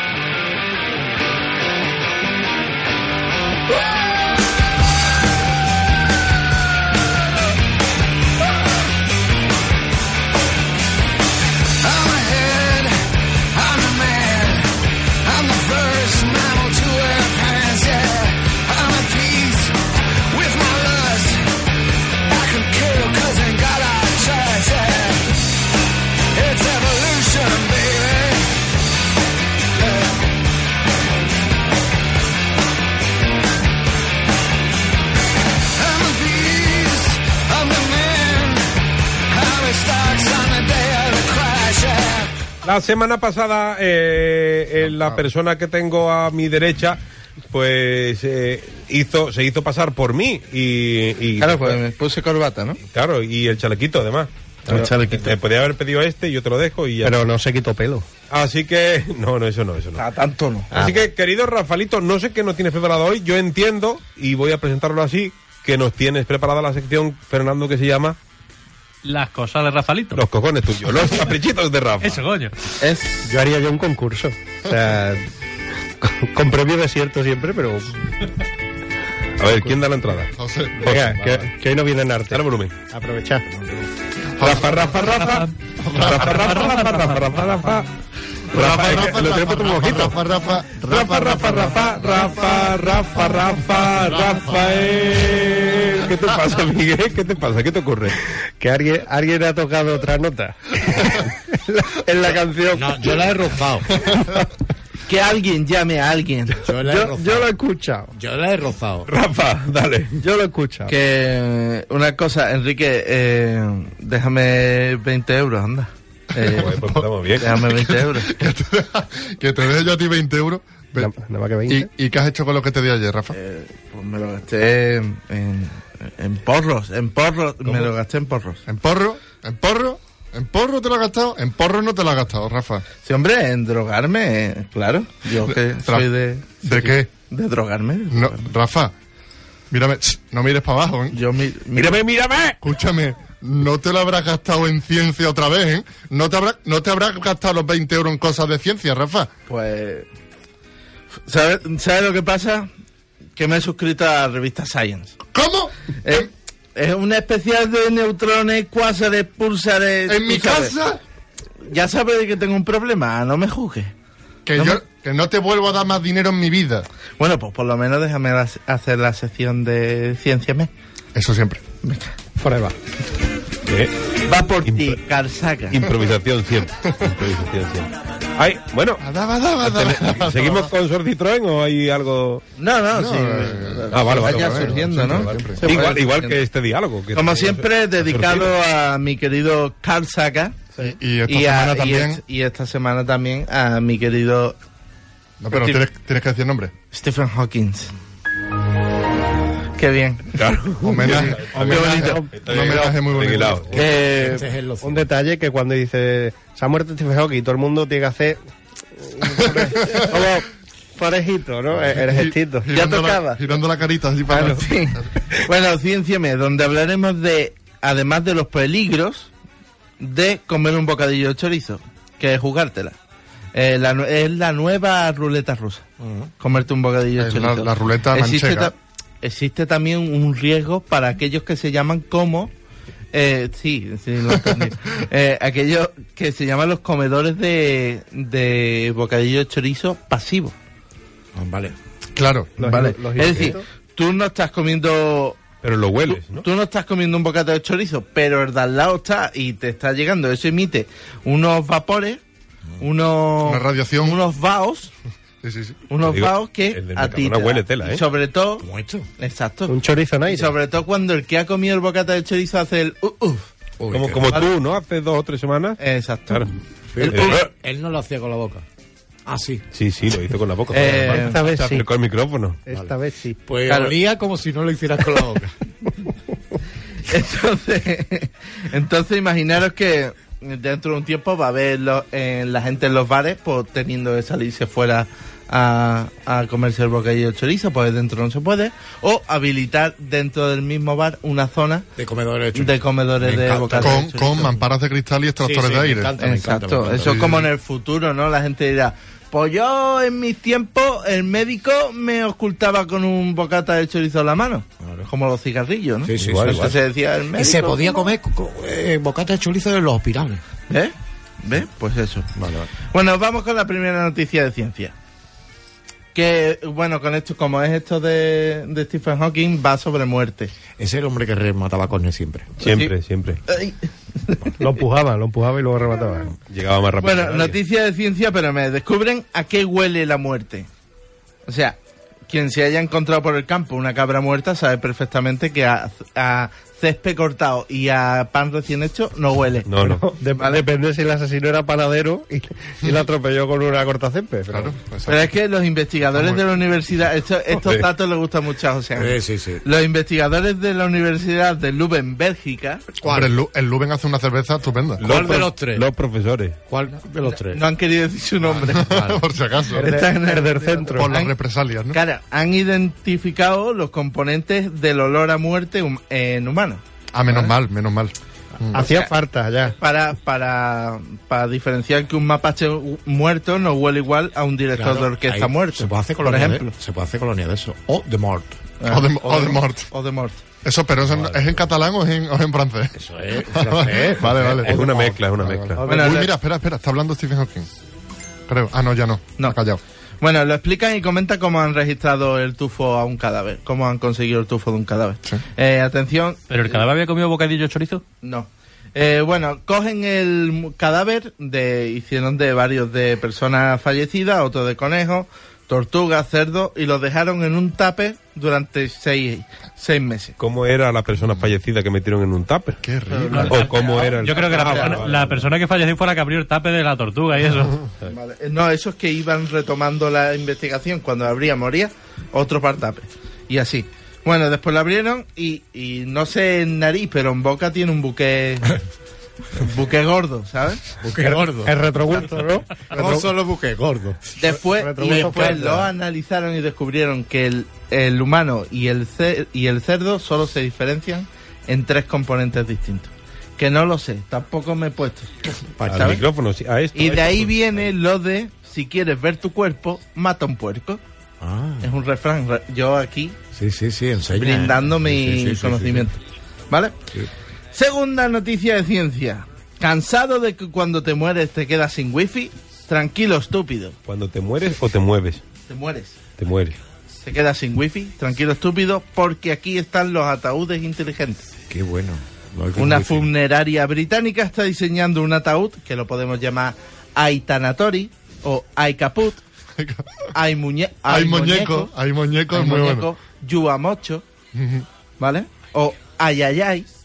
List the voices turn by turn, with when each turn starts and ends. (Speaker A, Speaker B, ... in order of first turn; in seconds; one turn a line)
Speaker A: 11.8-21.6
Speaker A: 22.2-25.4
Speaker A: 26.3-28.6
Speaker A: 29.8-30.2
Speaker A: 35.7-42.3
Speaker B: 42.6-51.8
Speaker C: 44.8-45.2
Speaker D: 51.4-52.8
Speaker B: 52.9-57.2
Speaker D: 54.6-55.4
Speaker E: 57.0-58.0
Speaker B: 58.3-60.0
Speaker D: 60.0-60.7
Speaker B: 60.7-68.2
Speaker E: 60.7-61.0
Speaker F: 69.0-70.2
Speaker B: 70.1-72.2
Speaker F: 72.0-72.5
Speaker D: 72.8-73.3
Speaker E: 73.2-75.2
Speaker E: 76.0-78.0
Speaker B: 79.4-81.4
Speaker C: 80.3-81.1
Speaker E: 80.8-83.5
Speaker B: 82.3-82.7
Speaker C: 84.4-84.8
Speaker B: 84.4-87.9
Speaker C: 85.8-86.5
Speaker B: 88.5-90.2
Speaker C: 88.5-92.2
Speaker B: 90.8-98.2
Speaker E: 98.6-103.2
Speaker G: 102.7-104.0
Speaker D: 105.1-106.7
Speaker G: 106.6-107.5
Speaker E: 106.8-108.1
Speaker G: 108.1-109.1
Speaker B: 109.1-110.1
Speaker E: 110.2-110.9
Speaker D: 110.9-116.8
Speaker C: 116.3-121.1
Speaker B: 116.4-117.5
Speaker D: 117.4-118.3
Speaker E: 121.0-121.9
Speaker C: 121.7-123.3
Speaker D: 123.3-128.6
Speaker C: 128.7-132.8
Speaker D: 133.0-138.4
Speaker C: 135.4-136.1
Speaker C: 136.6-137.1
Speaker C: 138.1-138.9
Speaker C: 139.7-141.2
Speaker D: 141.1-142.0
Speaker B: 141.7-142.6
Speaker C: 142.6-149.3
Speaker D: 149.5-150.1
Speaker D: 151.2-152.7
Speaker D: 153.3-155.2
Speaker C: 155.3-156.2
Speaker D: 156.0-160.8
Speaker C: 160.1-161.0
Speaker D: 161.7-163.9
Speaker C: 164.4-166.9
Speaker D: 164.6-164.8
Speaker D: 167.2-170.7
Speaker C: 171.1-171.6
Speaker D: 171.8-172.1
Speaker E: 172.4-172.7
Speaker B: 173.7-173.9
Speaker D: 174.2-175.9
Speaker B: 174.6-175.0
Speaker B: 175.7-179.0
Speaker C: 176.9-177.2
Speaker C: 179.0-180.7
Speaker B: 179.6-182.4
Speaker D: 182.6-186.4
Speaker C: 182.9-185.6
Speaker B: 183.9-188.5
Speaker D: 187.1-190.7
Speaker C: 190.8-192.2
Speaker D: 191.3-194.6
Speaker C: 195.4-196.7
Speaker D: 195.5-195.8
Speaker D: 196.9-197.9
Speaker D: 199.8-200.4
Speaker B: 200.3-203.9
Speaker C: 200.8-203.9
Speaker D: 201.0-202.8
Speaker E: 201.7-202.3
Speaker G: 203.7-205.1
Speaker D: 203.7-204.4
Speaker E: 204.8-208.4
Speaker E: 209.0-212.7
Speaker C: 209.5-210.0
Speaker C: 211.7-215.1
Speaker D: 212.7-213.4
Speaker D: 214.3-219.3
Speaker D: 220.0-223.0
Speaker D: 223.5-225.8
Speaker G: 226.0-226.3
Speaker D: 226.4-232.5
Speaker C: 227.2-228.7
Speaker D: 233.1-240.5
Speaker C: 234.4-234.7
Speaker G: 241.3-241.8
Speaker C: 242.1-242.7
Speaker E: 242.6-243.6
Speaker D: 242.6-245.4
Speaker B: 245.6-246.4
Speaker D: 246.1-252.2
Speaker D: 252.8-254.9
Speaker C: 253.4-254.2
Speaker C: 255.4-255.8
Speaker D: 255.9-258.6
Speaker B: 256.0-258.0
Speaker G: 258.6-259.1
Speaker D: 259.2-259.7
Speaker E: 259.7-260.5
Speaker D: 260.2-263.5
Speaker G: 263.8-264.4
Speaker B: 263.9-266.5
Speaker D: 265.8-266.5
Speaker G: 266.9-268.6
Speaker D: 267.0-267.4
Speaker B: 267.0-267.4
Speaker G: 269.2-269.6
Speaker B: 269.7-272.6
Speaker D: 270.7-271.4
Speaker E: 271.1-271.9
Speaker E: 272.7-273.4
Speaker G: 273.4-275.5
Speaker D: 273.7-273.9
Speaker D: 277.1-291.9
Speaker G: 291.9-294.0
Speaker D: 292.5-294.6
Speaker C: 293.8-296.1
Speaker G: 295.4-297.5
Speaker D: 296.2-308.1
Speaker G: 304.8-305.1
Speaker G: 306.0-306.8
Speaker B: 306.2-306.8
Speaker G: 307.3-310.4
Speaker D: 310.7-312.3
Speaker G: 312.3-312.7
Speaker D: 312.9-314.9
Speaker D: 316.1-320.5
Speaker G: 320.8-322.6
Speaker B: 322.6-323.4
Speaker D: 322.6-322.9
Speaker D: 323.5-324.6
Speaker E: 324.6-326.3
Speaker B: 326.5-327.6
Speaker D: 327.0-330.7
Speaker D: 331.4-331.8
Speaker D: 332.3-339.7
Speaker B: 339.7-340.0
Speaker E: 339.8-344.8
Speaker D: 340.3-340.6
Speaker C: 344.5-345.3
Speaker D: 345.1-352.8
Speaker C: 346.1-346.4
Speaker B: 347.6-347.9
Speaker G: 348.9-349.6
Speaker G: 353.0-353.4
Speaker C: 353.0-355.3
Speaker B: 355.0-356.6
Speaker G: 355.0-355.9
Speaker G: 356.7-357.6
Speaker D: 357.2-358.9
Speaker G: 358.4-359.2
Speaker C: 358.6-359.9
Speaker D: 359.7-361.3
Speaker E: 359.7-361.1
Speaker C: 361.0-362.0
Speaker D: 361.9-367.5
Speaker C: 367.1-368.9
Speaker E: 368.7-369.8
Speaker D: 368.8-369.1
Speaker D: 369.7-376.7
Speaker G: 374.7-378.6
Speaker D: 378.8-380.4
Speaker C: 378.8-379.9
Speaker C: 380.6-387.7
Speaker B: 381.0-381.6
Speaker G: 382.9-385.2
Speaker B: 384.6-385.8
Speaker E: 385.8-386.3
Speaker D: 385.8-386.3
Speaker C: 388.5-389.8
Speaker D: 390.2-396.8
Speaker F: 396.5-398.0
Speaker D: 398.2-410.4
Speaker B: 410.4-415.4
Speaker C: 412.8-413.6
Speaker D: 413.1-415.1
Speaker F: 413.3-417.8
Speaker D: 418.0-428.7
Speaker D: 429.5-430.8
Speaker G: 431.0-431.8
Speaker E: 431.2-433.3
Speaker G: 432.9-435.7
Speaker D: 434.4-445.4
Speaker E: 434.7-435.8
Speaker G: 445.5-446.2
Speaker B: 445.9-447.9
Speaker D: 445.9-446.2
Speaker D: 446.9-451.0
Speaker G: 451.4-451.9
Speaker D: 451.8-453.4
Speaker G: 453.5-456.1
Speaker D: 454.3-457.0
Speaker D: 457.7-463.9
Speaker B: 464.1-465.4
Speaker D: 465.7-466.2
Speaker B: 466.4-466.8
Speaker D: 467.2-471.5
Speaker G: 471.7-473.3
Speaker D: 472.8-479.4
Speaker C: 479.8-480.3
Speaker D: 480.3-481.9
Speaker C: 481.1-483.1
Speaker D: 482.5-484.2
Speaker C: 484.5-484.9
Speaker D: 485.2-486.9